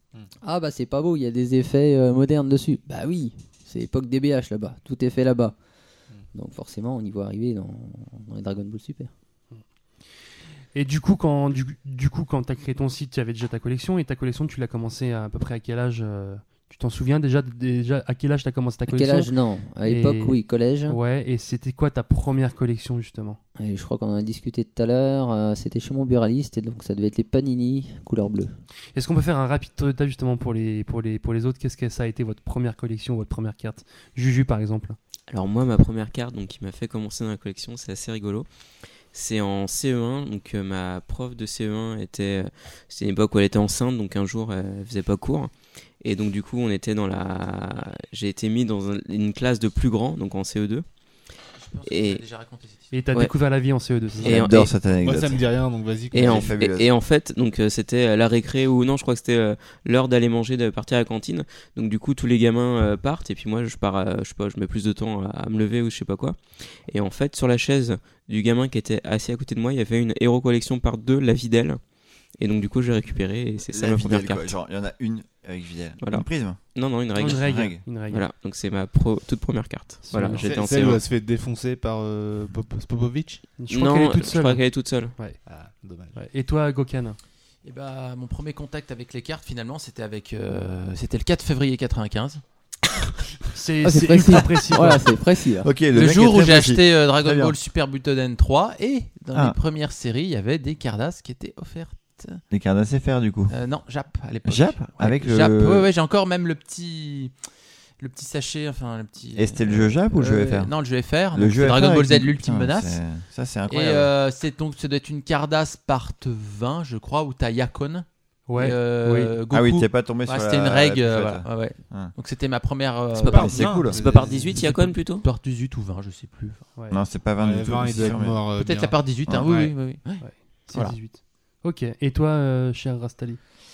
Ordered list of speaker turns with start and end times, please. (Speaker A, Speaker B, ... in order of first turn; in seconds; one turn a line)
Speaker A: 0.4-5.6
Speaker A: 6.3-9.1
Speaker B: 10.7-19.3
Speaker A: 18.9-21.0
Speaker B: 19.9-23.4
Speaker A: 23.6-28.5
Speaker B: 28.9-35.0
Speaker C: 35.3-38.5
Speaker C: 39.1-50.9
Speaker D: 51.6-53.0
Speaker C: 51.9-52.2
Speaker B: 52.9-54.4
Speaker C: 54.2-54.7
Speaker E: 54.2-55.5
Speaker F: 55.0-56.5
Speaker E: 56.1-56.9
Speaker C: 56.1-71.8
Speaker C: 72.3-74.5
Speaker E: 73.7-76.6
Speaker C: 76.0-81.0
Speaker B: 77.2-78.2
Speaker E: 77.2-78.0
Speaker B: 80.0-80.5
Speaker F: 80.3-83.6
Speaker B: 83.6-84.6
Speaker C: 83.7-85.2
Speaker F: 85.5-86.2
Speaker B: 86.1-87.2
Speaker D: 87.6-92.4
Speaker B: 93.5-95.0
Speaker A: 93.8-95.7
Speaker E: 95.6-97.5
Speaker D: 95.9-102.4
Speaker E: 102.5-103.5
Speaker D: 103.5-107.3
Speaker E: 104.5-105.9
Speaker D: 108.0-113.0
Speaker E: 109.4-110.7
Speaker E: 111.3-114.1
Speaker D: 113.7-126.7
Speaker B: 118.5-119.3
Speaker E: 119.5-122.1
Speaker C: 123.2-125.2
Speaker F: 123.2-124.7
Speaker E: 123.4-124.0
Speaker E: 126.9-128.4
Speaker F: 127.4-129.7
Speaker D: 128.6-130.2
Speaker B: 130.2-133.4